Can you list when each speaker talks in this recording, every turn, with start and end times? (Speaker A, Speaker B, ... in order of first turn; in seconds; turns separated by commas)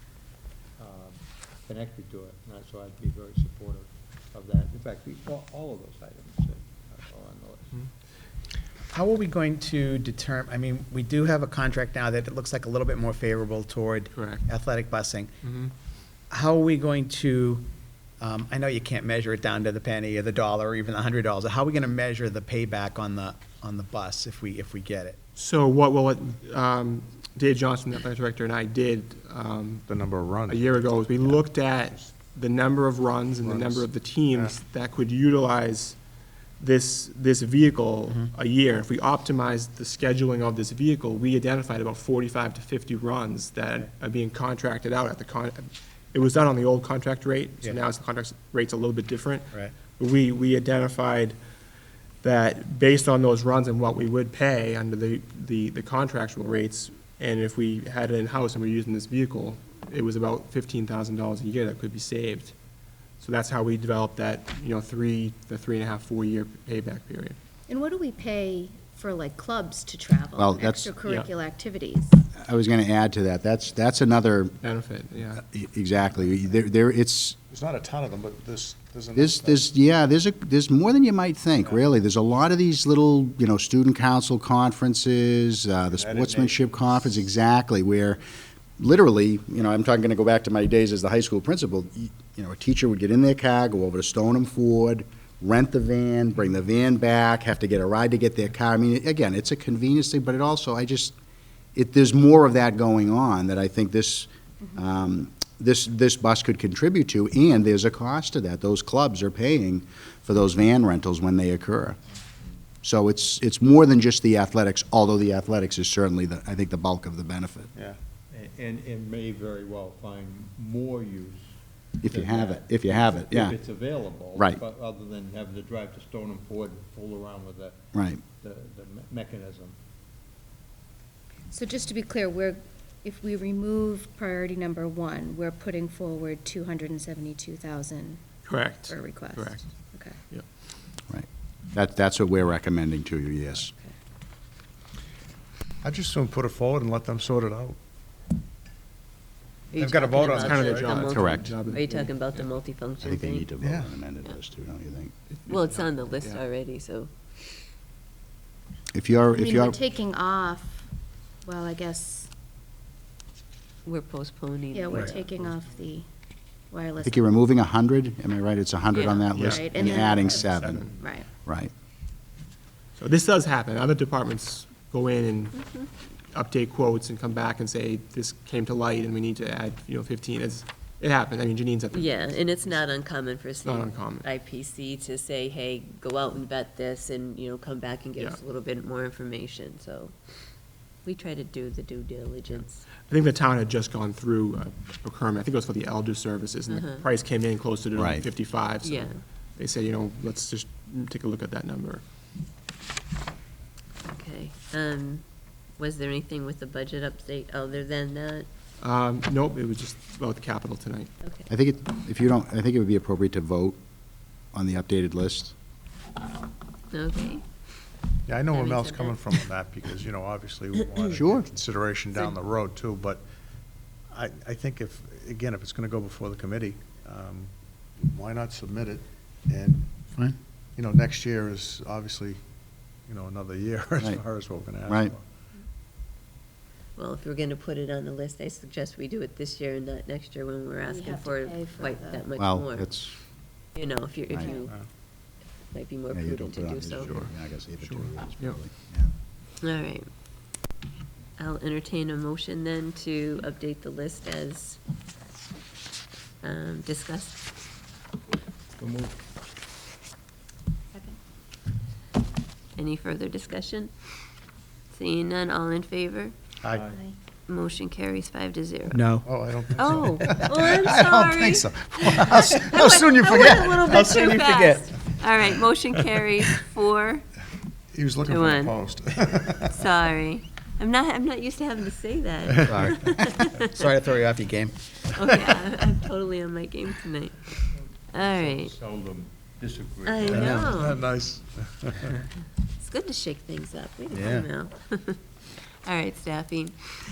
Speaker A: 0.8-7.8, Speaker B: 8.9-15.3, Speaker C: 14.1-14.4, Speaker C: 15.4-15.7, Speaker B: 16.3-17.6, Speaker B: 18.2-25.2, Speaker C: 25.4-29.9, Speaker D: 29.9-32.0, Speaker C: 30.5-36.0, Speaker D: 33.4-34.6, Speaker C: 36.6-51.4, Speaker C: 52.2-62.5, Speaker C: 63.2-67.4, Speaker E: 67.7-72.2, Speaker F: 70.4-71.0, Speaker F: 72.4-74.6, Speaker C: 74.6-75.4, Speaker F: 75.4-77.4, Speaker D: 77.5-79.7, Speaker F: 79.2-88.2, Speaker D: 85.9-87.2, Speaker F: 88.8-101.1, Speaker F: 101.8-112.0, Speaker F: 112.8-117.7, Speaker A: 118.3-129.8, Speaker F: 122.0-124.6, Speaker F: 127.9-128.2, Speaker E: 131.5-138.2, Speaker C: 138.4-139.7, Speaker E: 138.8-140.2, Speaker F: 141.1-143.7, Speaker D: 145.8-147.8, Speaker G: 149.7-153.5, Speaker D: 149.8-151.1, Speaker C: 150.4-152.4, Speaker F: 151.1-151.6, Speaker F: 153.0-155.1, Speaker D: 153.6-153.9, Speaker C: 155.3-156.4, Speaker G: 155.5-157.1, Speaker F: 158.9-159.8, Speaker E: 159.3-162.3, Speaker G: 163.8-165.3, Speaker E: 164.7-166.1, Speaker E: 166.7-167.3, Speaker F: 167.0-170.9, Speaker G: 168.9-169.3, Speaker C: 169.3-170.0, Speaker E: 169.5-171.3, Speaker C: 170.6-170.9, Speaker F: 171.4-171.7, Speaker C: 173.0-175.6, Speaker C: 176.3-182.6, Speaker G: 181.9-190.2, Speaker C: 183.6-184.3, Speaker G: 190.8-192.8, Speaker C: 193.1-202.0, Speaker G: 196.7-197.0, Speaker F: 197.9-198.2, Speaker G: 198.8-199.2, Speaker G: 204.1-208.5, Speaker C: 208.8-211.1, Speaker F: 211.5-213.8, Speaker F: 214.5-215.5, Speaker G: 216.9-217.4, Speaker D: 218.2-223.2, Speaker G: 218.5-219.1, Speaker F: 221.0-221.5, Speaker D: 224.1-229.9, Speaker D: 230.8-232.4, Speaker D: 233.1-235.2, Speaker F: 234.9-235.1, Speaker G: 236.9-242.9, Speaker E: 240.8-242.2, Speaker F: 242.4-243.2, Speaker G: 243.7-247.1, Speaker D: 244.6-244.9, Speaker F: 246.1-249.1, Speaker C: 247.8-248.6, Speaker G: 249.6-250.1, Speaker G: 251.4-254.8, Speaker G: 256.4-257.4, Speaker A: 258.8-259.2, Speaker G: 262.8-263.9, Speaker G: 264.9-266.3, Speaker D: 266.6-266.9, Speaker A: 266.7-267.0, Speaker G: 267.5-269.1, Speaker B: 268.9-269.3, Speaker D: 269.2-274.4, Speaker G: 269.8-277.2, Speaker B: 274.2-274.8, Speaker D: 277.9-279.9, Speaker G: 278.2-278.8, Speaker G: 279.7-283.9, Speaker B: 282.7-283.1, Speaker B: 283.6-284.8, Speaker G: 285.1-287.4, Speaker A: 287.7-290.9, Speaker G: 288.1-288.8, Speaker G: 290.1-291.0, Speaker D: 290.2-292.1, Speaker G: 292.8-295.2, Speaker B: 294.1-294.5, Speaker G: 295.8-296.8